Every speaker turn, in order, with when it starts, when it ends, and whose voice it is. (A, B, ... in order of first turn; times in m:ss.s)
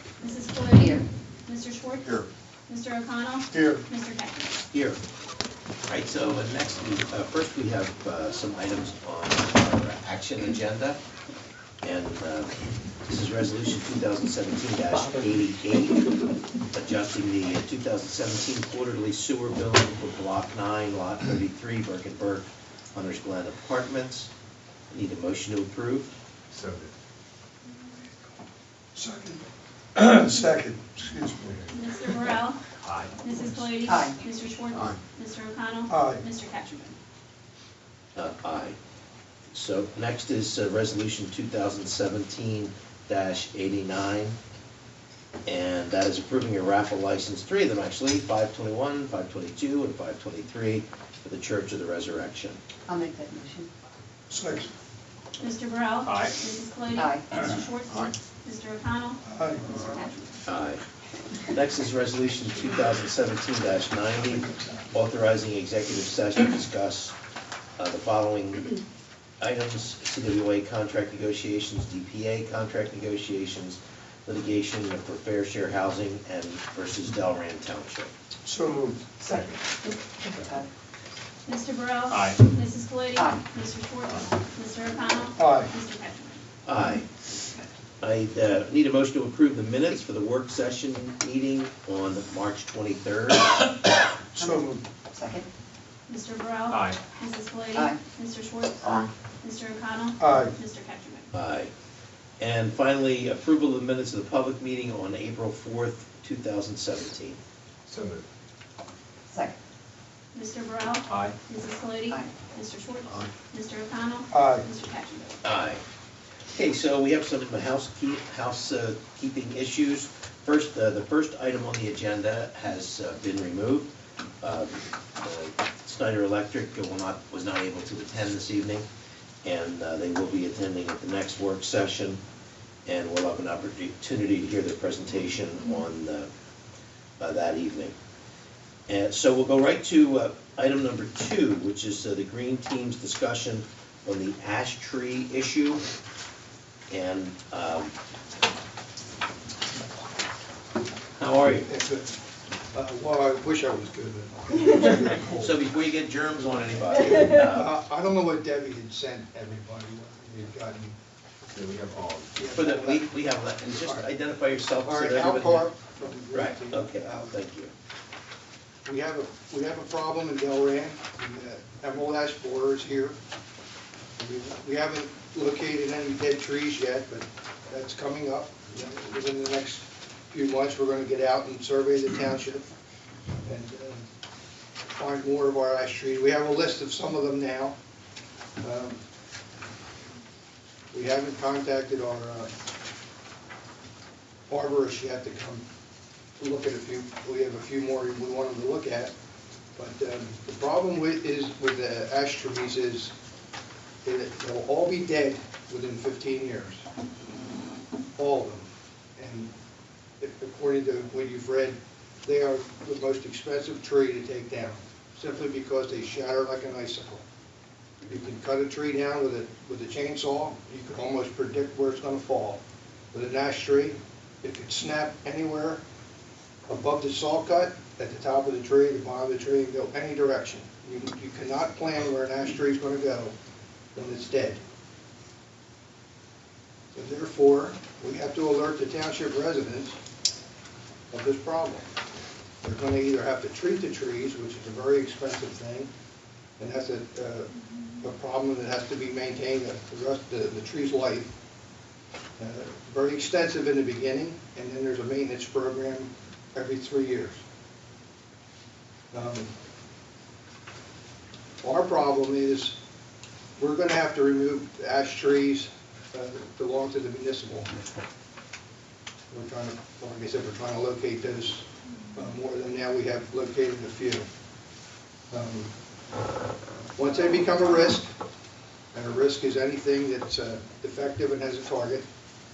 0:00.2-0:04.6 A
0:00.7-0:01.0 B
0:03.5-0:03.8 C
0:04.7-0:05.0 D
0:05.9-0:11.0 D
0:11.8-0:12.5 D
0:13.1-0:16.1 D
0:16.7-0:24.3 D
0:24.9-0:26.1 D
0:26.5-0:26.9 E
0:28.9-0:31.6 C
0:31.7-0:32.6 A
0:32.8-0:33.1 E
0:33.2-0:36.9 A
0:33.8-0:34.2 B
0:35.9-0:36.2 C
0:38.2-0:38.8 D
0:39.5-0:44.4 D
0:45.4-0:52.6 D
0:52.9-0:53.7 B
0:54.3-0:54.7 C
0:55.4-1:00.1 A
0:56.0-0:56.3 E
0:57.0-0:57.2 B
0:59.2-1:00.4 C
1:00.4-1:00.8 D
1:01.5-1:07.2 D
1:04.3-1:04.8 C
1:07.8-1:08.7 D
1:09.4-1:18.1 D
1:18.4-1:19.1 C
1:19.2-1:20.7 B
1:19.3-1:19.6 E
1:21.4-1:26.4 A
1:22.1-1:22.4 E
1:25.4-1:25.7 C
1:26.6-1:27.1 D
1:28.0-1:33.7 D
1:34.4-1:35.5 B
1:34.4-1:34.8 C
1:36.1-1:41.3 A
1:36.7-1:37.0 E
1:40.2-1:40.5 C
1:41.3-1:41.7 D
1:42.4-1:47.4 D
1:47.8-1:48.2 E
1:49.3-1:49.6 B
1:50.3-1:55.4 A
1:51.1-1:51.4 E
1:54.3-1:54.6 C
1:55.4-1:55.8 D
1:56.5-2:03.9 D
2:04.4-2:08.8 D
2:09.4-2:12.2 D
2:12.8-2:16.3 D
2:17.2-2:17.9 D
2:18.9-2:25.8 D
2:26.9-2:27.9 D
2:31.2-2:31.7 D
2:31.5-2:32.2 C
2:32.7-2:35.6 C
2:34.8-2:37.7 D
2:37.1-2:40.9 C
2:41.5-2:42.3 E
2:42.3-2:43.2 C
2:42.5-2:45.7 D
2:43.8-2:44.1 C
2:44.8-2:47.4 C
2:46.3-2:47.7 D
2:48.8-2:53.2 C
2:54.2-3:02.6 C
3:03.4-3:04.0 C
3:04.9-3:07.8 C
3:08.6-3:09.0 C
3:10.9-3:12.5 C
3:14.5-3:15.6 C
3:16.4-3:19.1 C
3:19.8-3:23.1 C
3:24.0-3:26.8 C
3:28.2-3:29.5 C
3:30.2-3:37.2 C
3:38.0-3:42.6 C
3:43.1-3:45.8 C
3:46.7-3:53.3 C
3:53.9-3:54.6 C
3:56.9-4:00.0 C
4:01.1-4:01.8 C
4:02.6-4:05.9 C
4:06.6-4:11.3 C
4:12.4-4:17.4 C
4:19.1-4:19.5 C
4:21.6-4:22.8 C
4:23.6-4:27.7 C
4:29.3-4:34.2 C
4:35.3-4:35.7 C
4:37.0-4:38.1 C
4:38.9-4:42.0 C